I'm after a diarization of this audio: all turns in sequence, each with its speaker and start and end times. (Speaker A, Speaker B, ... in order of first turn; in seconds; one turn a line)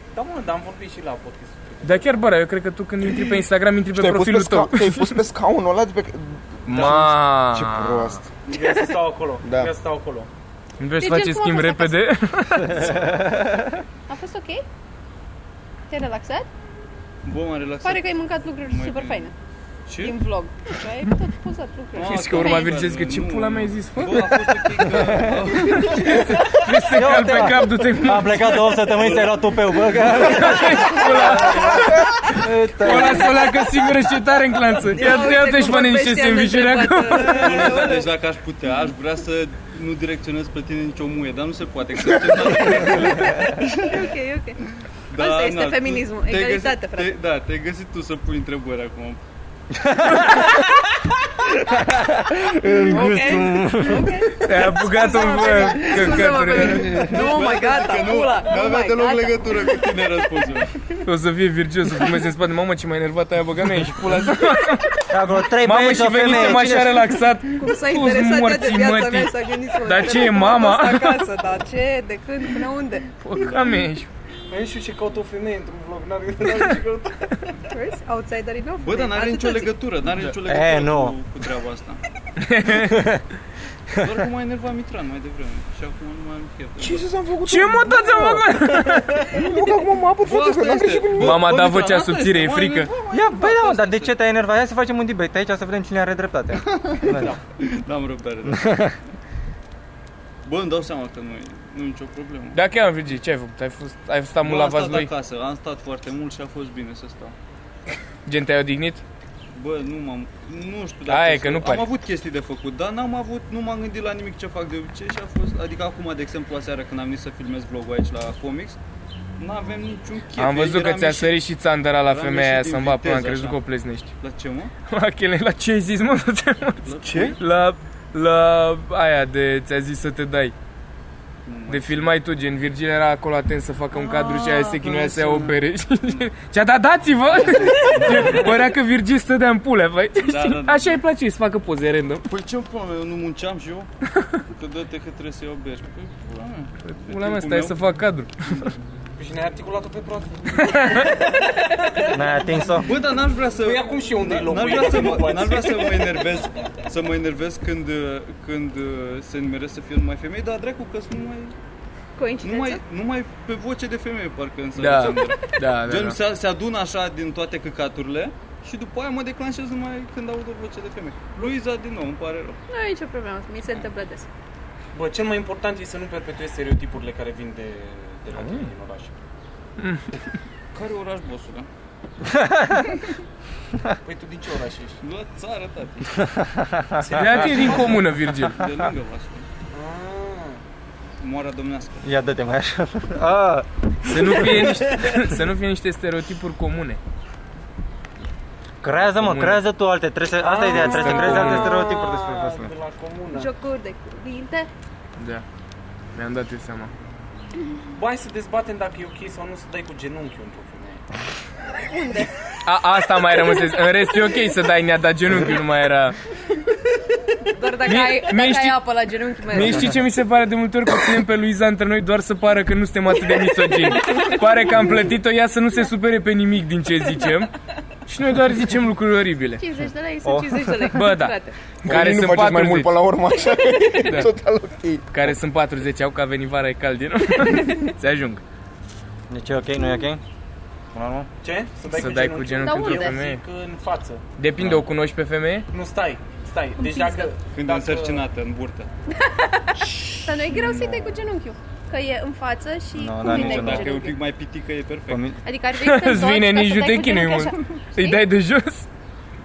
Speaker A: 0.1-2.2
Speaker B: 1.8-5.2
Speaker C: 3.9-8.2
Speaker B: 6.7-8.2
Speaker A: 6.7-7.1
Speaker A: 8.4-10.3
Speaker D: 8.5-8.9
Speaker C: 9.4-9.7
Speaker B: 10.8-13.1
Speaker D: 11.0-12.0
Speaker E: 12.7-13.8
Speaker D: 14.1-14.6
Speaker D: 15.9-16.5
Speaker F: 17.2-19.3
Speaker D: 17.8-19.3
Speaker F: 19.9-20.2
Speaker D: 19.9-22.7
Speaker F: 21.9-26.5
Speaker B: 22.0-29.1
Speaker E: 24.9-33.5
Speaker F: 28.9-29.7
Speaker B: 30.1-37.9
Speaker D: 34.9-38.1
Speaker F: 37.2-44.0
Speaker E: 42.6-43.6
Speaker D: 43.7-44.6
Speaker F: 45.1-49.2
Speaker D: 45.1-47.1
Speaker E: 49.7-50.7
Speaker E: 51.5-54.4
Speaker D: 52.8-59.8
Speaker B: 54.4-57.0
Speaker F: 56.6-60.7
Speaker B: 61.0-71.2
Speaker E: 65.1-67.1
Speaker D: 67.5-73.1
Speaker B: 73.2-74.1
Speaker F: 73.3-73.8
Speaker A: 74.5-77.6
Speaker D: 77.7-79.7
Speaker F: 78.8-82.0
Speaker E: 80.5-81.2
Speaker B: 82.4-83.1
Speaker E: 82.8-83.2
Speaker F: 84.0-87.1
Speaker C: 86.8-91.5
Speaker B: 87.4-89.4
Speaker F: 90.2-94.1
Speaker B: 91.2-92.9
Speaker E: 93.1-97.3
Speaker F: 96.6-98.9
Speaker A: 97.1-97.4
Speaker E: 98.5-98.9
Speaker F: 100.4-102.6
Speaker B: 102.5-105.1
Speaker F: 104.4-107.3
Speaker B: 108.2-109.0
Speaker F: 109.5-118.8
Speaker B: 111.1-111.9
Speaker F: 119.4-121.4
Speaker B: 120.4-124.1
Speaker F: 122.1-123.6
Speaker F: 124.2-124.7
Speaker B: 124.9-130.5
Speaker F: 126.8-127.4
Speaker C: 127.0-127.4
Speaker F: 131.4-132.1
Speaker B: 131.7-142.2
Speaker F: 133.9-136.2
Speaker F: 137.3-138.7
Speaker F: 140.2-141.0
Speaker F: 142.3-143.9
Speaker F: 144.5-147.8
Speaker B: 146.8-148.7
Speaker A: 149.2-152.9
Speaker B: 150.6-151.1
Speaker E: 152.1-152.9
Speaker F: 152.8-161.5
Speaker A: 153.5-156.2
Speaker D: 162.2-162.8
Speaker F: 162.4-172.6
Speaker B: 164.8-166.2
Speaker D: 172.7-174.3
Speaker A: 174.9-179.2
Speaker C: 178.3-178.6
Speaker B: 179.8-180.2
Speaker F: 180.7-181.7
Speaker E: 182.2-183.0
Speaker A: 184.0-185.0
Speaker F: 185.0-186.3
Speaker E: 186.2-187.6
Speaker A: 187.0-188.0
Speaker B: 187.1-188.6
Speaker F: 187.3-189.4
Speaker A: 189.7-190.6
Speaker F: 191.2-192.0
Speaker E: 192.0-194.9
Speaker B: 194.0-197.0
Speaker E: 198.8-202.7
Speaker B: 199.1-199.6
Speaker A: 200.4-203.5
Speaker B: 200.7-201.8
Speaker D: 203.3-204.7
Speaker B: 205.2-205.4
Speaker B: 206.1-206.9
Speaker A: 207.9-211.0
Speaker D: 211.8-212.3
Speaker B: 212.6-216.2
Speaker D: 217.5-219.9
Speaker B: 217.8-218.8
Speaker B: 219.5-227.5
Speaker B: 228.1-229.6
Speaker D: 229.6-231.6
Speaker E: 230.2-230.9
Speaker B: 230.9-232.9
Speaker C: 231.8-235.1
Speaker B: 234.0-234.3
Speaker B: 235.1-238.4
Speaker E: 239.3-240.2
Speaker E: 240.9-241.3
Speaker A: 241.4-244.2
Speaker B: 241.9-243.4
Speaker D: 242.6-243.2
Speaker B: 244.4-245.7
Speaker E: 244.6-244.8
Speaker A: 245.7-248.2
Speaker D: 246.8-247.3
Speaker F: 247.5-248.9
Speaker D: 249.1-254.2
Speaker A: 249.9-250.5
Speaker E: 250.8-251.1
Speaker E: 252.9-253.9
Speaker F: 253.2-255.2
Speaker E: 255.1-255.4
Speaker D: 255.4-258.2
Speaker B: 255.8-258.9